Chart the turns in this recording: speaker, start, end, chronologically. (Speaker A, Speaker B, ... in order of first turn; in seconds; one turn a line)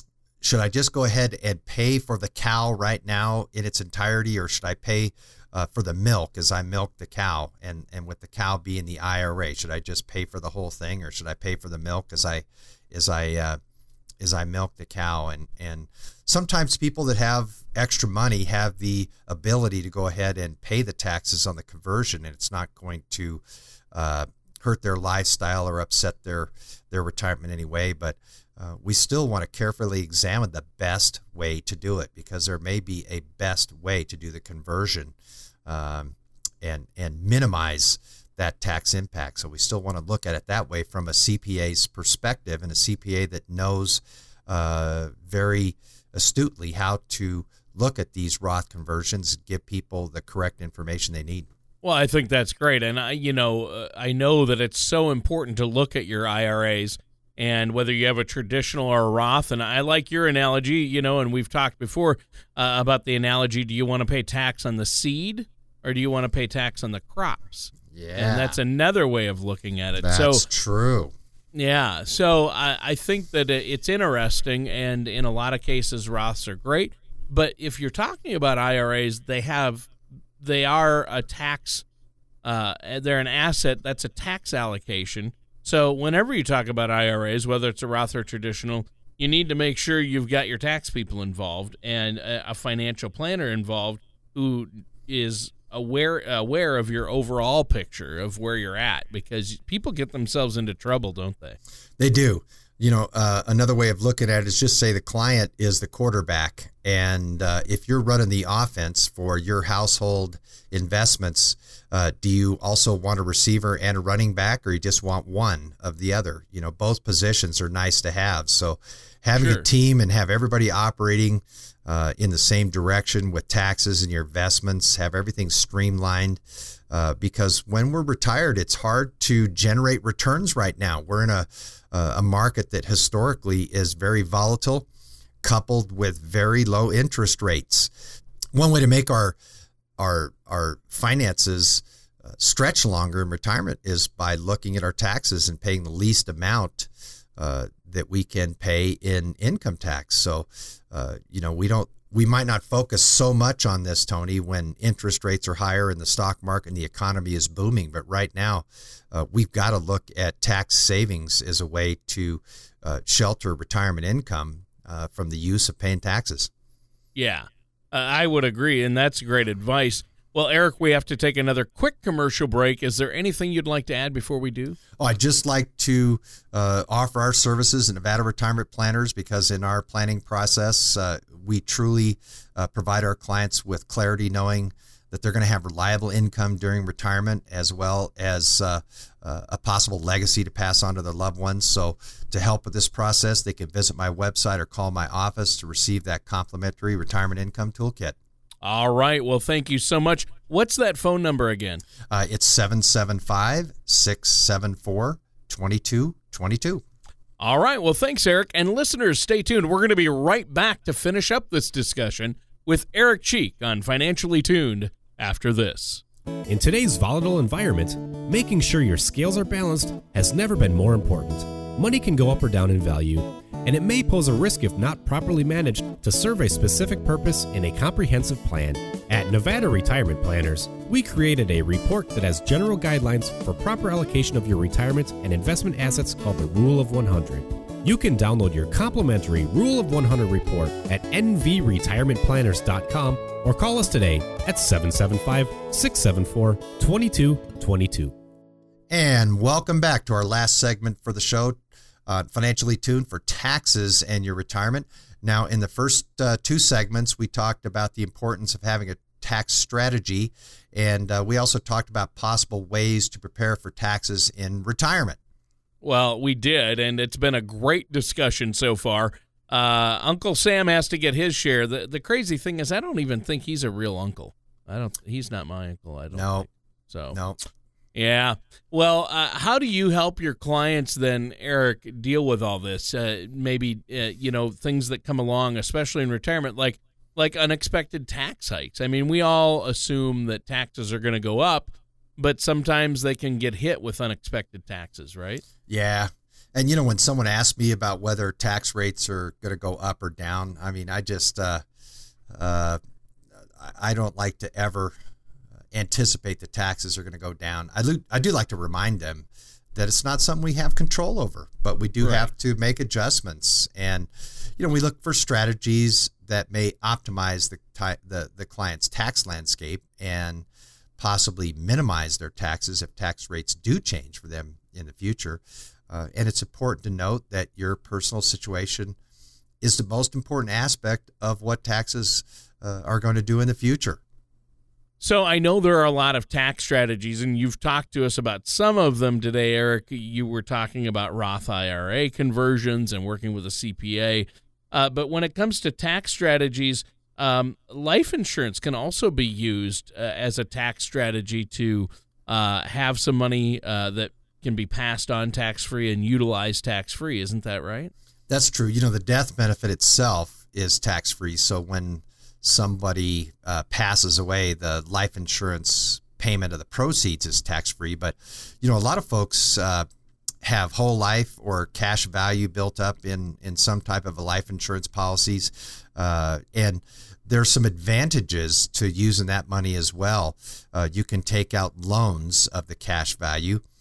Speaker A: 0.4-13.6
Speaker A: 14.2-35.1
Speaker A: 35.6-51.5
Speaker B: 51.8-70.4
Speaker A: 67.9-68.6
Speaker A: 70.0-71.1
Speaker B: 71.5-81.8
Speaker B: 82.4-101.6
Speaker A: 102.0-134.9
Speaker B: 119.3-119.6
Speaker A: 135.4-137.9
Speaker A: 138.5-139.4
Speaker A: 140.0-166.5
Speaker B: 167.1-174.8
Speaker A: 175.0-198.2
Speaker B: 198.6-201.8
Speaker A: 202.1-206.8
Speaker B: 207.4-216.0
Speaker C: 216.5-248.1
Speaker A: 248.9-265.2
Speaker B: 265.8-277.2
Speaker A: 276.1-276.5
Speaker A: 277.1-277.4
Speaker B: 277.9-295.4
Speaker A: 295.7-301.6
Speaker A: 302.3-302.8
Speaker A: 303.6-304.9
Speaker A: 305.7-320.4
Speaker B: 312.0-312.3
Speaker A: 321.0-329.0
Speaker A: 329.6-334.0
Speaker B: 335.0-357.9
Speaker A: 358.3-369.9
Speaker A: 370.4-383.6